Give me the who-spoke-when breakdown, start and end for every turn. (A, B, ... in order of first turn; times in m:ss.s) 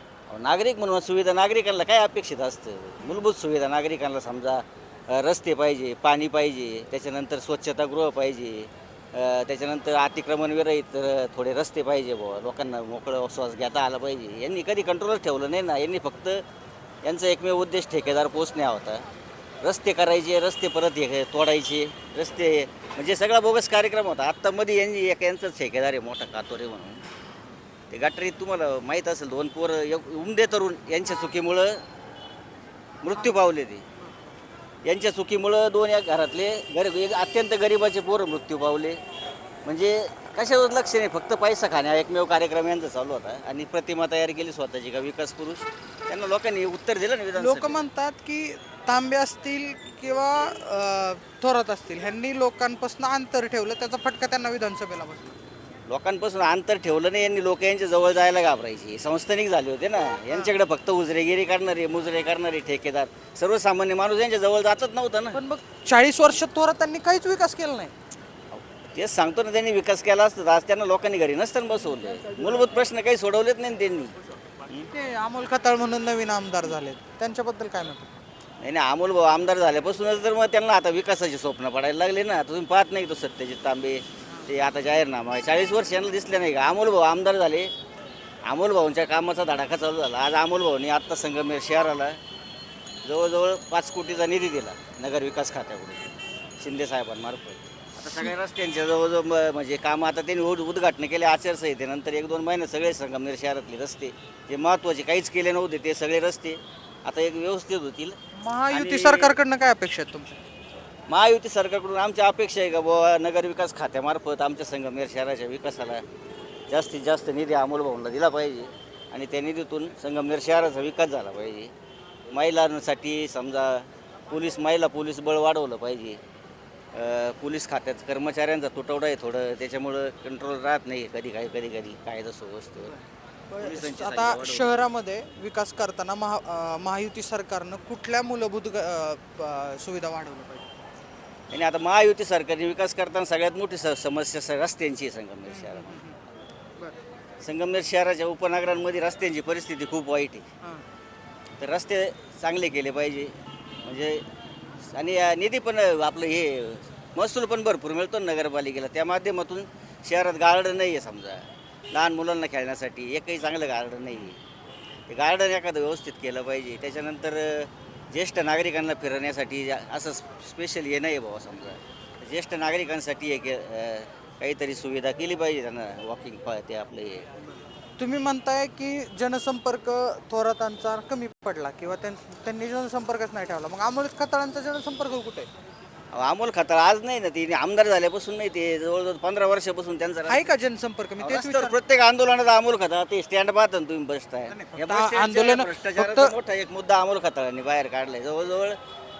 0:00.3-0:16.4 A
0:17.0-0:19.0 A
0:19.6-0:27.0 A
0:27.9-0:31.8 A
0:33.0-0:33.8 A
0:34.0-0:34.3 B
0:34.8-0:39.0 A
0:39.6-0:47.8 A
0:47.3-0:55.4 B
0:55.9-1:05.4 A
1:05.3-1:07.9 B
1:08.5-1:14.1 A
1:14.9-1:18.1 B
1:18.6-1:27.7 A
1:28.4-1:32.2 A
1:33.0-1:36.0 A
1:36.6-1:48.2 A
1:48.4-1:50.4 B
1:48.7-1:49.4 A
1:51.1-1:56.0 A
1:56.7-2:01.7 A
2:02.3-2:06.2 A
2:06.9-2:12.9 A
2:12.8-2:20.7 B
2:13.6-2:14.8 A
2:21.5-2:26.0 A
2:25.5-2:26.2 B
2:27.4-2:30.4 A
2:31.6-2:34.2 A
2:34.9-2:44.4 A
2:45.1-2:57.3 A
2:58.0-3:05.5 B
3:06.1-3:10.5 A
3:10.3-3:11.8 B
3:11.2-3:18.8 A
3:14.5-3:16.3 B